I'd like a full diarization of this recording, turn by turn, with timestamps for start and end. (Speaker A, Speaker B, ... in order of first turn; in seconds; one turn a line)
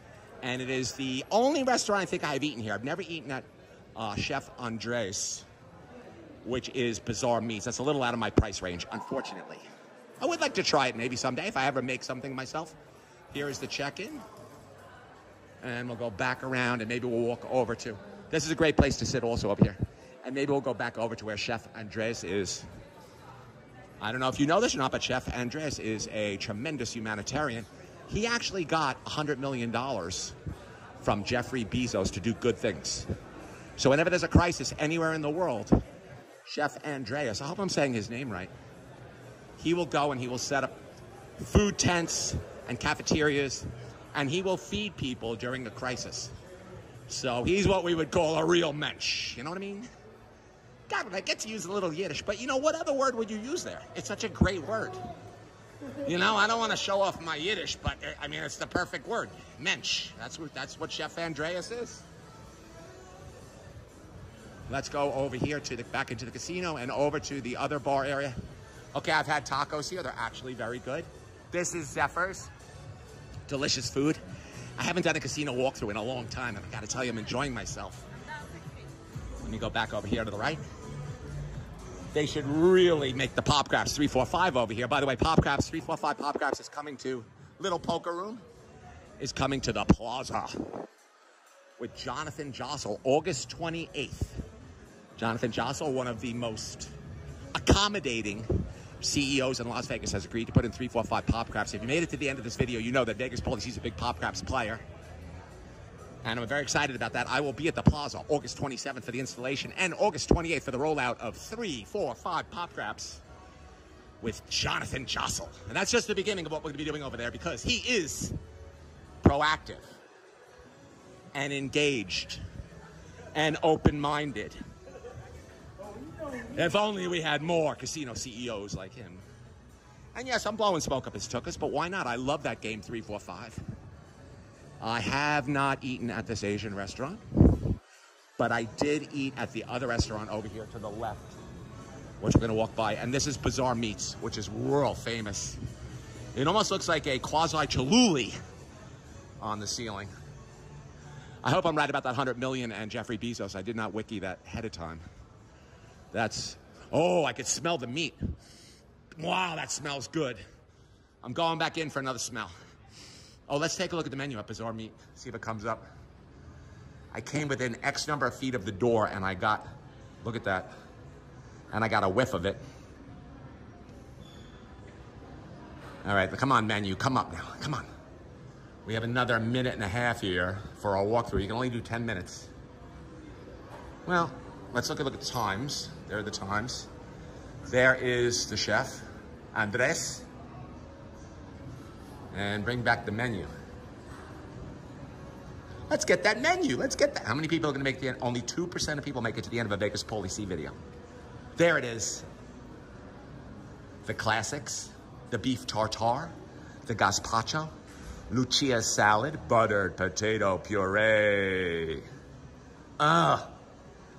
Speaker A: 0.4-3.4
Speaker A: 4.0-5.5
Speaker A: 6.4-9.6
Speaker A: 10.2-12.7
Speaker A: 13.3-14.2
Speaker A: 15.6-22.6
Speaker A: 24.0-30.4
Speaker A: 31.0-33.1
Speaker A: 33.8-35.7
Speaker A: 36.5-38.5
Speaker A: 39.6-40.7
Speaker A: 41.4-46.3
Speaker A: 47.1-49.9
Speaker A: 50.9-55.0
Speaker A: 56.0-62.0
Speaker A: 64.7-68.4
Speaker A: 68.9-72.5
Speaker A: 73.5-74.2
Speaker A: 74.8-78.0
Speaker A: 79.4-80.6
Speaker A: 82.1-88.4
Speaker A: 89.2-90.7
Speaker A: 91.8-94.4
Speaker A: 95.2-96.9
Speaker A: 97.5-104.8
Speaker A: 106.2-113.2
Speaker A: 114.2-118.3
Speaker A: 119.2-119.9
Speaker A: 121.3-122.4
Speaker A: 123.3-124.6
Speaker A: 126.4-129.2
Speaker A: 130.1-133.6
Speaker A: 134.8-137.7
Speaker A: 138.4-141.4
Speaker A: 142.2-145.6
Speaker A: 146.3-148.3
Speaker A: 149.4-150.1
Speaker A: 151.4-155.0
Speaker A: 156.1-158.2
Speaker A: 159.1-160.4
Speaker A: 161.2-162.5
Speaker A: 163.5-165.8
Speaker A: 167.1-169.6
Speaker A: 170.2-170.7
Speaker A: 171.7-172.6
Speaker A: 176.0-177.9
Speaker A: 178.8-182.5
Speaker A: 184.1-186.9
Speaker A: 187.7-190.2
Speaker A: 192.3-193.5
Speaker A: 195.9-200.8
Speaker A: 201.6-202.2
Speaker A: 204.0-206.3
Speaker A: 206.8-207.7
Speaker A: 208.3-212.1
Speaker A: 213.0-213.5